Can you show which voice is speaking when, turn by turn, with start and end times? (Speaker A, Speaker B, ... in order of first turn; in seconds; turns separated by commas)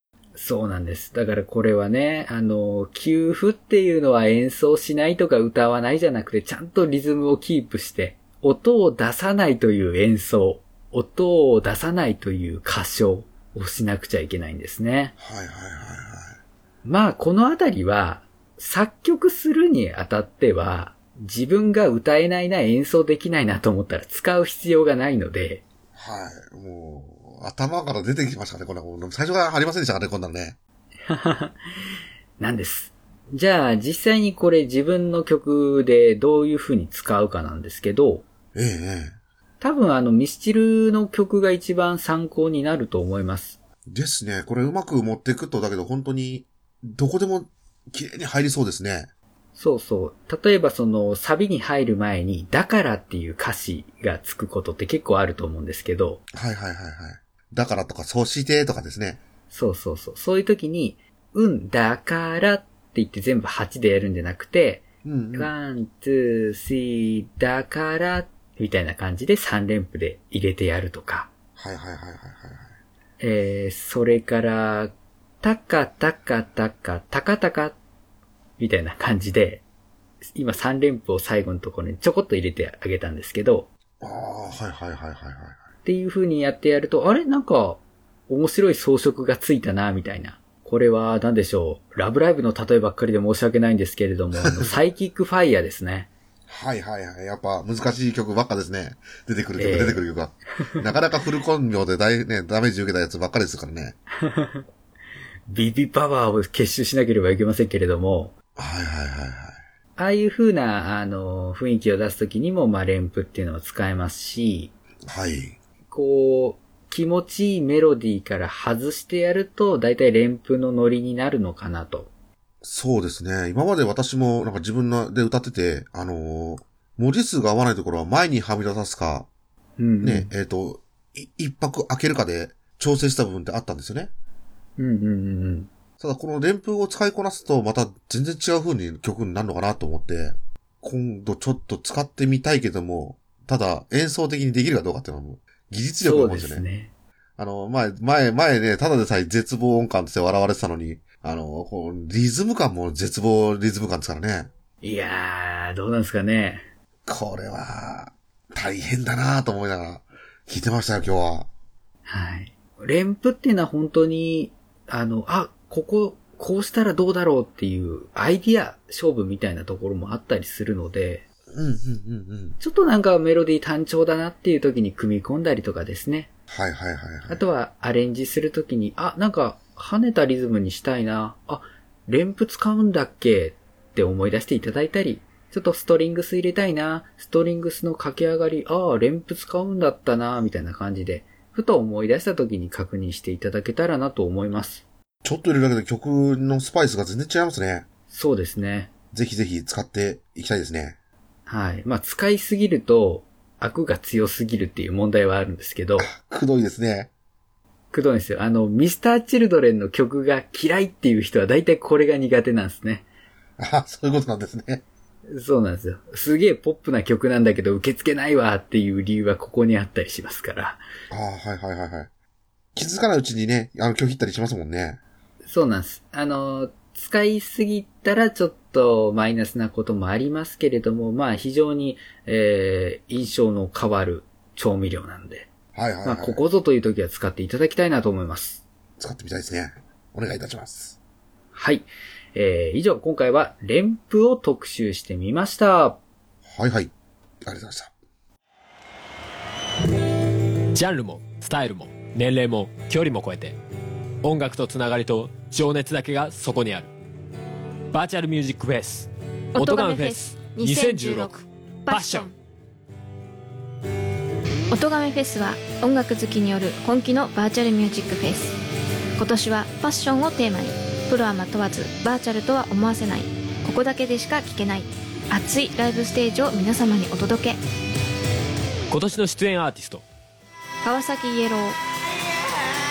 Speaker A: 0.3-15.1, Speaker B: 15.2-16.4, Speaker A: 16.8-25.6, Speaker B: 25.9-30.6, Speaker A: 31.1-31.6, Speaker A: 32.4-38.2, Speaker B: 38.5-39.2, Speaker A: 39.6-43.6, Speaker B: 43.9-49.1, Speaker A: 49.5-56.2, Speaker B: 56.3-59.2, Speaker A: 59.5-71.3, Speaker B: 65.0-65.5, Speaker B: 71.5-72.7, Speaker A: 73.2-77.8, Speaker A: 78.6-79.6, Speaker A: 80.3-83.7, Speaker B: 84.0-85.6, Speaker A: 85.8-96.1, Speaker B: 94.4-94.7, Speaker B: 96.5-104.0, Speaker A: 99.5-100.0, Speaker A: 104.2-104.7, Speaker A: 105.5-108.3, Speaker B: 108.6-109.6, Speaker A: 110.0-114.7, Speaker B: 115.1-115.6, Speaker A: 115.9-122.1, Speaker B: 122.6-129.3, Speaker A: 129.8-130.3, Speaker B: 130.0-134.1, Speaker A: 134.8-135.7, Speaker B: 136.0-146.6, Speaker A: 146.0-146.9, Speaker B: 147.4-154.5, Speaker A: 154.8-156.7, Speaker B: 157.1-161.5, Speaker A: 162.1-171.2, Speaker B: 171.5-172.6, Speaker A: 172.6-176.3, Speaker B: 176.5-177.4, Speaker A: 177.3-194.8, Speaker B: 195.2-197.8, Speaker A: 198.1-198.9, Speaker B: 199.1-201.0, Speaker A: 201.5-206.1, Speaker B: 206.0-207.1, Speaker A: 207.9-213.0, Speaker B: 213.6-214.8, Speaker A: 215.3-220.8, Speaker B: 221.1-222.1, Speaker B: 222.7-225.0, Speaker A: 225.4-235.5, Speaker B: 235.7-236.4, Speaker A: 236.0-238.6, Speaker B: 239.0-241.0, Speaker A: 241.5-246.0, Speaker B: 246.4-246.9, Speaker B: 247.4-247.9, Speaker C: 250.7-253.6, Speaker C: 254.2-256.9, Speaker C: 257.9-262.3, Speaker D: 259.5-262.3, Speaker D: 264.7-268.6, Speaker D: 269.2-277.6, Speaker C: 278.9-280.0, Speaker D: 280.8-281.8